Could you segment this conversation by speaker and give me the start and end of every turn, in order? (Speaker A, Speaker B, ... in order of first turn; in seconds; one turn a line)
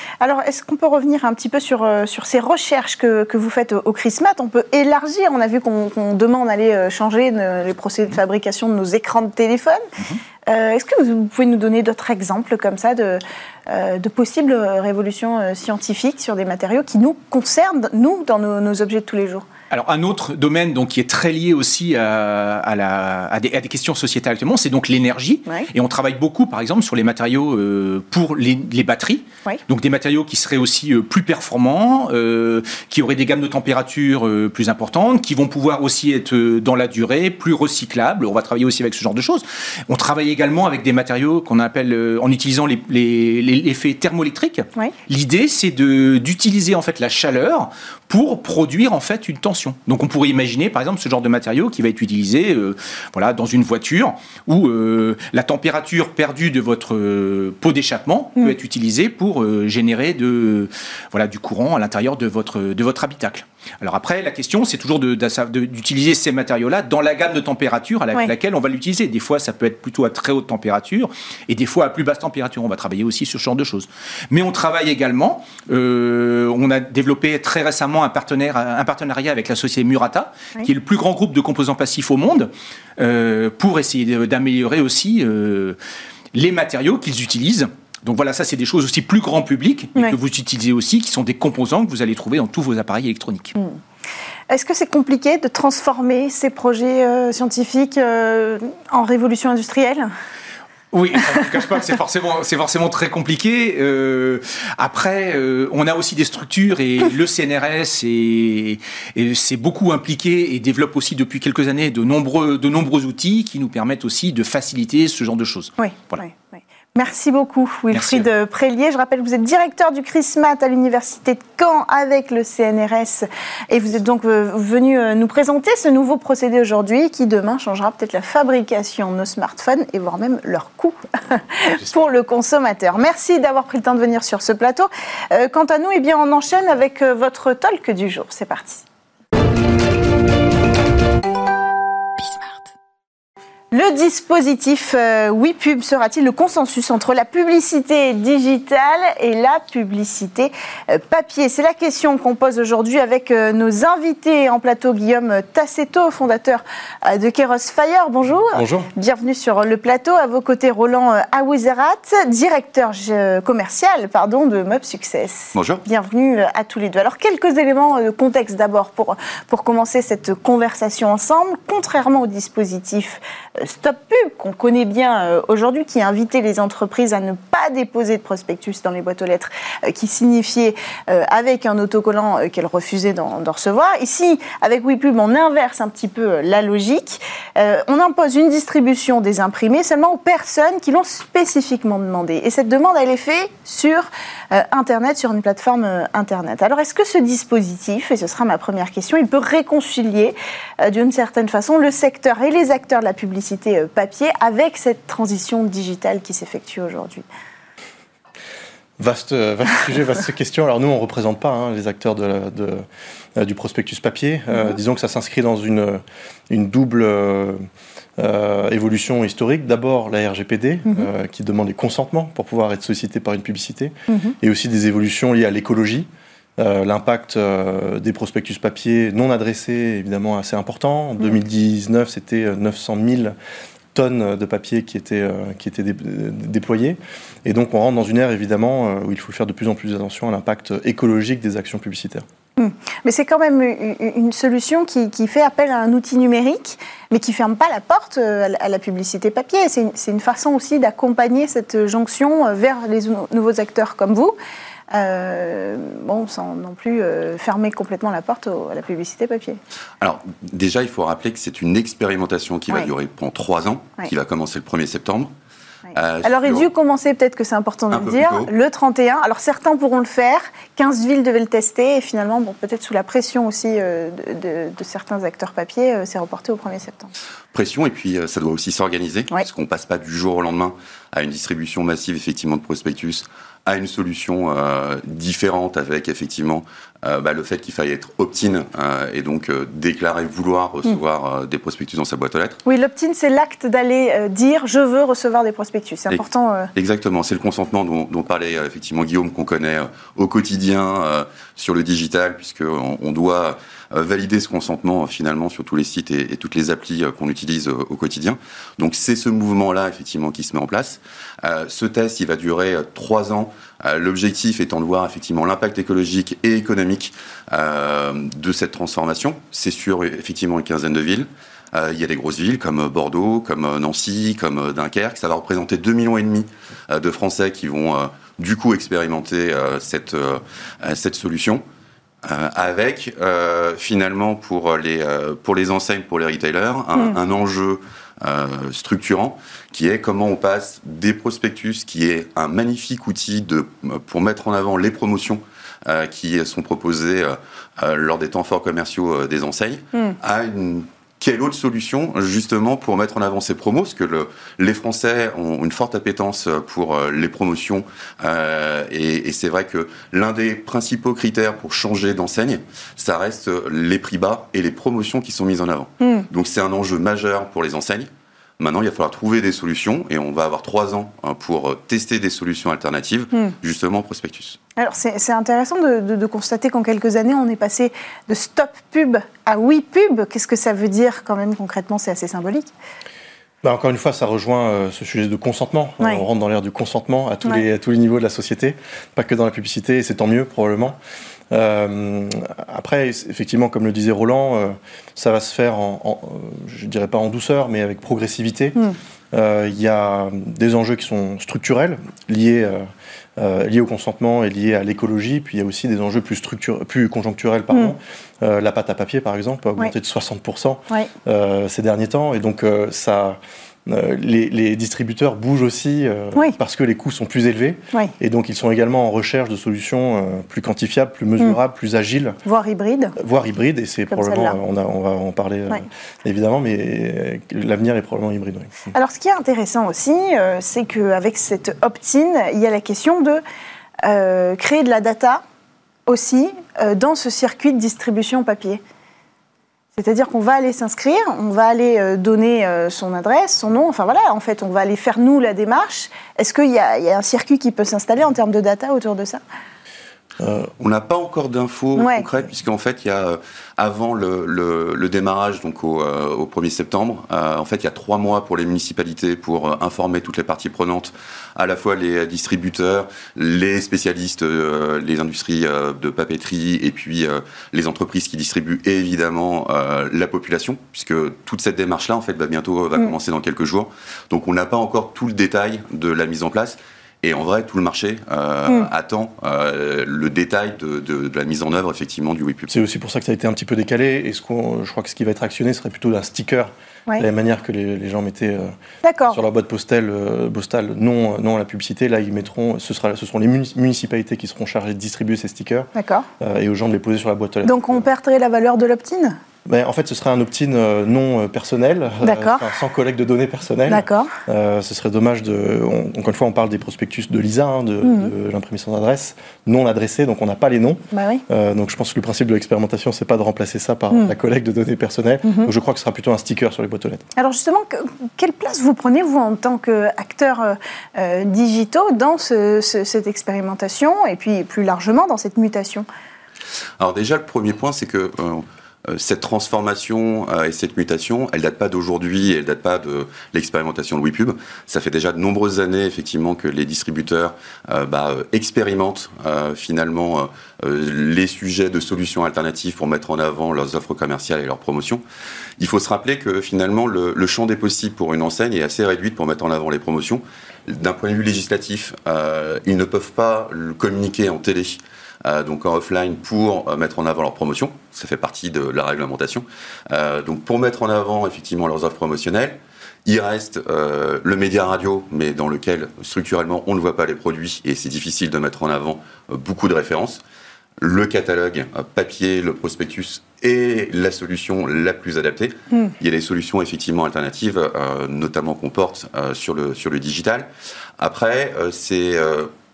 Speaker A: 0.2-9.8
Speaker A: 10.5-19.4
Speaker B: 19.7-85.8
Speaker B: 86.3-93.6
Speaker A: 94.5-100.1
Speaker B: 100.9-116.2
Speaker A: 115.8-138.8
Speaker B: 117.9-118.3
Speaker A: 143.7-207.2
Speaker C: 158.5-158.9
Speaker D: 165.5-165.8
Speaker C: 209.0-212.8
Speaker C: 213.3-217.6
Speaker C: 218.2-233.3
Speaker A: 224.1-224.3
Speaker C: 233.9-242.2
Speaker A: 242.6-254.3
Speaker A: 254.9-259.6
Speaker D: 260.0-265.3
Speaker D: 265.9-266.7
Speaker A: 266.2-277.1
Speaker D: 267.9-268.5
Speaker D: 277.5-292.6
Speaker A: 292.6-296.7
Speaker D: 296.7-331.6
Speaker D: 332.2-374.6
Speaker A: 366.0-366.3
Speaker A: 374.8-382.7
Speaker C: 383.6-391.0
Speaker C: 391.5-398.8
Speaker C: 399.3-402.9
Speaker C: 403.4-422.4
Speaker A: 422.4-423.1
Speaker C: 423.2-428.9
Speaker A: 424.1-424.6
Speaker A: 428.9-433.4
Speaker A: 434.0-435.4
Speaker A: 436.1-438.8
Speaker A: 439.9-449.4
Speaker C: 450.4-450.7
Speaker D: 450.8-482.7
Speaker A: 451.9-452.3
Speaker C: 482.7-488.7
Speaker A: 489.0-489.4
Speaker C: 489.3-498.1
Speaker A: 495.9-496.3
Speaker A: 497.6-499.4
Speaker C: 499.6-517.2
Speaker A: 502.2-502.7
Speaker A: 503.9-504.3
Speaker A: 508.0-508.3
Speaker A: 511.1-511.4
Speaker A: 515.4-515.7
Speaker A: 517.4-526.0
Speaker D: 527.0-545.2
Speaker D: 545.8-570.4
Speaker D: 571.0-580.7
Speaker D: 581.2-582.7